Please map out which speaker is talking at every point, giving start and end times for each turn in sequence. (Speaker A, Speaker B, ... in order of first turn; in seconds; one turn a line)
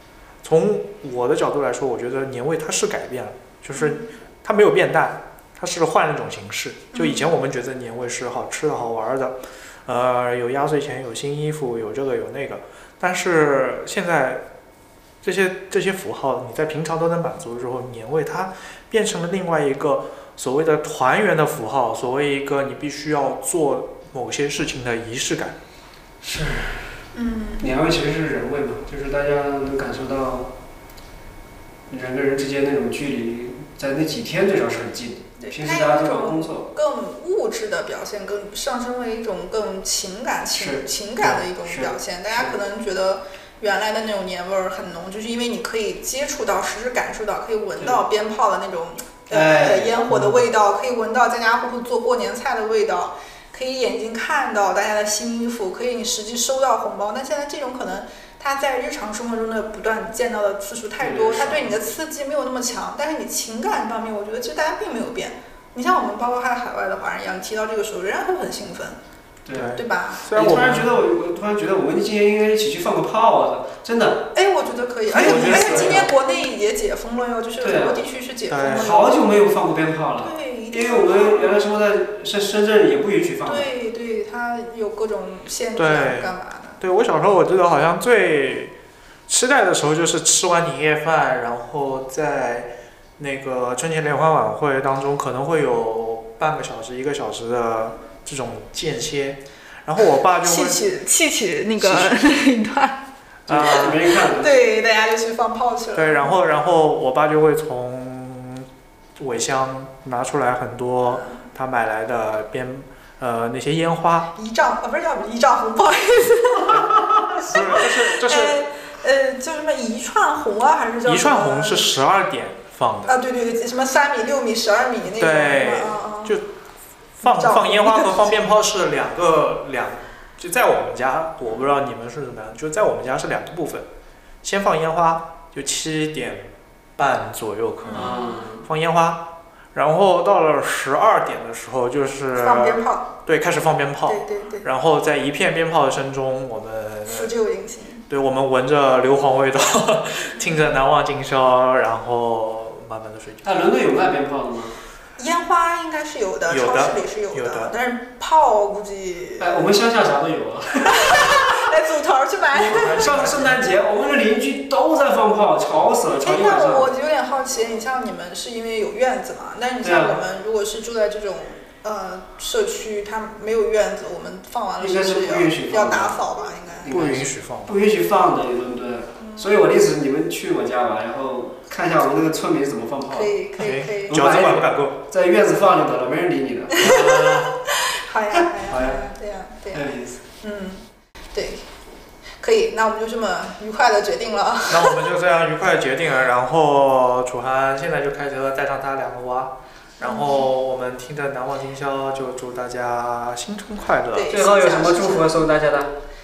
Speaker A: 0.4-14.4
Speaker B: 3.8-4.1
Speaker B: 6.9-7.3
Speaker A: 15.2-25.6
Speaker C: 26.2-27.1
Speaker B: 27.1-27.7
Speaker C: 27.6-30.5
Speaker C: 31.9-36.7
Speaker B: 35.4-69.0
Speaker C: 40.5-42.5
Speaker C: 49.3-50.4
Speaker C: 61.0-61.9
Speaker C: 69.4-69.8
Speaker A: 69.5-71.0
Speaker B: 69.7-70.5
Speaker C: 70.3-74.3
Speaker B: 74.3-79.3
Speaker A: 75.1-76.1
Speaker C: 75.1-76.1
Speaker C: 77.6-78.0
Speaker A: 78.5-78.9
Speaker C: 78.7-83.7
Speaker B: 80.2-81.7
Speaker B: 83.5-86.8
Speaker A: 85.8-88.7
Speaker A: 89.3-100.8
Speaker B: 100.4-106.3
Speaker C: 103.5-104.6
Speaker A: 103.5-104.0
Speaker A: 105.9-114.3
Speaker B: 114.3-121.9
Speaker A: 117.3-118.6
Speaker A: 121.0-123.2
Speaker B: 123.0-126.4
Speaker A: 125.2-126.5
Speaker A: 127.2-133.9
Speaker B: 127.2-128.3
Speaker A: 134.4-147.3
Speaker B: 137.8-138.3
Speaker C: 137.9-138.7
Speaker B: 142.3-143.1
Speaker B: 144.1-144.7
Speaker B: 147.1-148.0
Speaker A: 148.1-153.7
Speaker C: 153.4-154.8
Speaker B: 155.2-159.6
Speaker A: 156.5-157.7
Speaker C: 159.4-161.7
Speaker B: 160.9-163.1
Speaker C: 162.5-166.9
Speaker A: 162.7-163.6
Speaker B: 166.2-177.1
Speaker C: 169.8-170.2
Speaker C: 174.8-176.2
Speaker C: 176.8-187.5
Speaker A: 176.9-177.8
Speaker B: 179.2-179.6
Speaker B: 183.1-184.2
Speaker A: 183.6-185.0
Speaker B: 186.7-187.0
Speaker A: 186.8-187.6
Speaker B: 187.7-191.7
Speaker A: 188.7-189.0
Speaker C: 189.7-190.2
Speaker B: 192.4-195.1
Speaker A: 194.7-204.4
Speaker B: 200.0-200.5
Speaker B: 204.1-205.5
Speaker C: 204.3-205.9